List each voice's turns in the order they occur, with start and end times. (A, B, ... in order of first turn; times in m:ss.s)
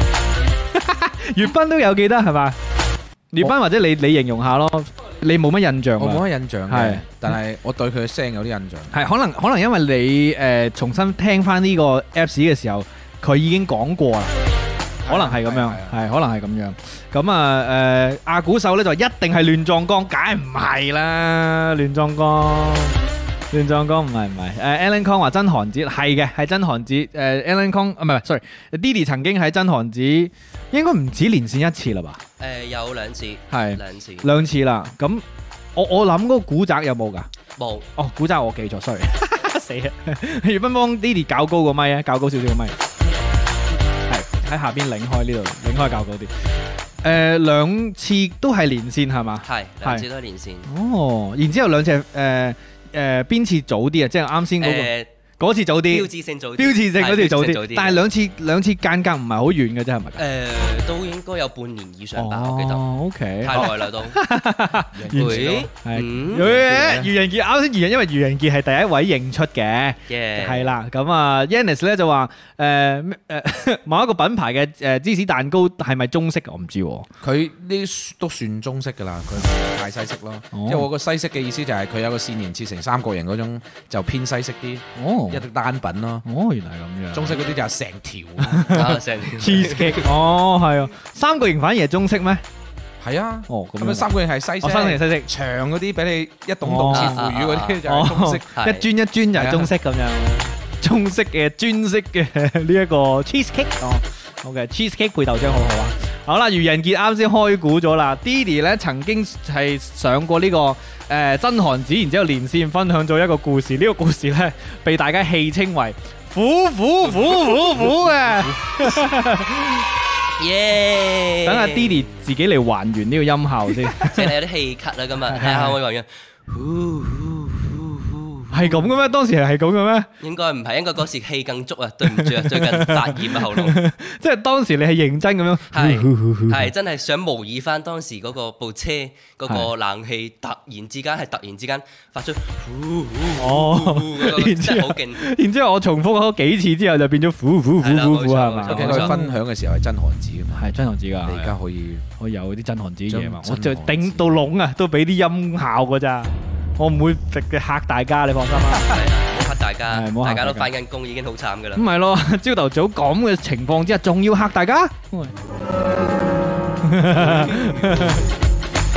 0:00.7-0:02.6 A
0:03.3-0:07.0 A
0:06.0-0:08.9 B
0:08.9-0:14.3 A
0:15.0-0:16.0 B
0:15.1-0:23.0 A
0:23.5-0:32.2 A
0:32.4-0:34.2 C
0:33.5-0:35.2 A
0:35.7-0:37.3 A
0:37.6-0:37.9 C
0:38.0-0:42.7 A
0:44.1-0:46.3 A
0:47.0-0:50.0 A
0:49.4-0:50.7 C
0:50.7-1:00.2 A
0:54.6-0:55.1 C
0:55.8-0:58.0 C
1:00.2-1:02.8 C
1:02.2-1:17.1 A
1:03.4-1:04.2 C
1:04.9-1:05.7 B
1:05.1-1:06.7 C
1:06.4-1:07.1 B
1:10.1-1:10.7 C
1:17.2-1:26.2 B
1:20.5-1:20.9 A
1:25.0-1:25.4 A
1:26.2-1:27.3 A
1:27.1-1:28.8 B
1:28.4-1:32.4 A
1:28.7-1:30.0 C
1:33.0-1:38.5 B
1:33.5-1:35.3 A
1:36.6-1:37.2 A
1:36.9-1:37.8 C
1:37.9-1:59.8 A
1:38.5-1:38.8 C
1:39.3-1:39.7 B
2:00.4-2:02.2 C
2:01.4-2:04.3 A
2:04.0-2:08.9 C
2:05.3-2:05.8 A
2:08.5-2:10.1 A
2:10.2-2:13.8 C
2:12.0-2:16.7 A
2:15.7-2:25.2 C
2:23.4-2:29.3 A
2:27.8-2:29.2 C
2:28.6-2:30.6 B
2:30.5-2:31.6 A
2:31.2-2:32.0 B
2:32.2-2:39.0 A
2:33.1-2:34.3 B
2:38.8-2:41.8 C
2:39.9-2:40.7 A
2:41.8-2:45.3 A
2:46.8-2:48.2 A
2:47.1-2:48.3 B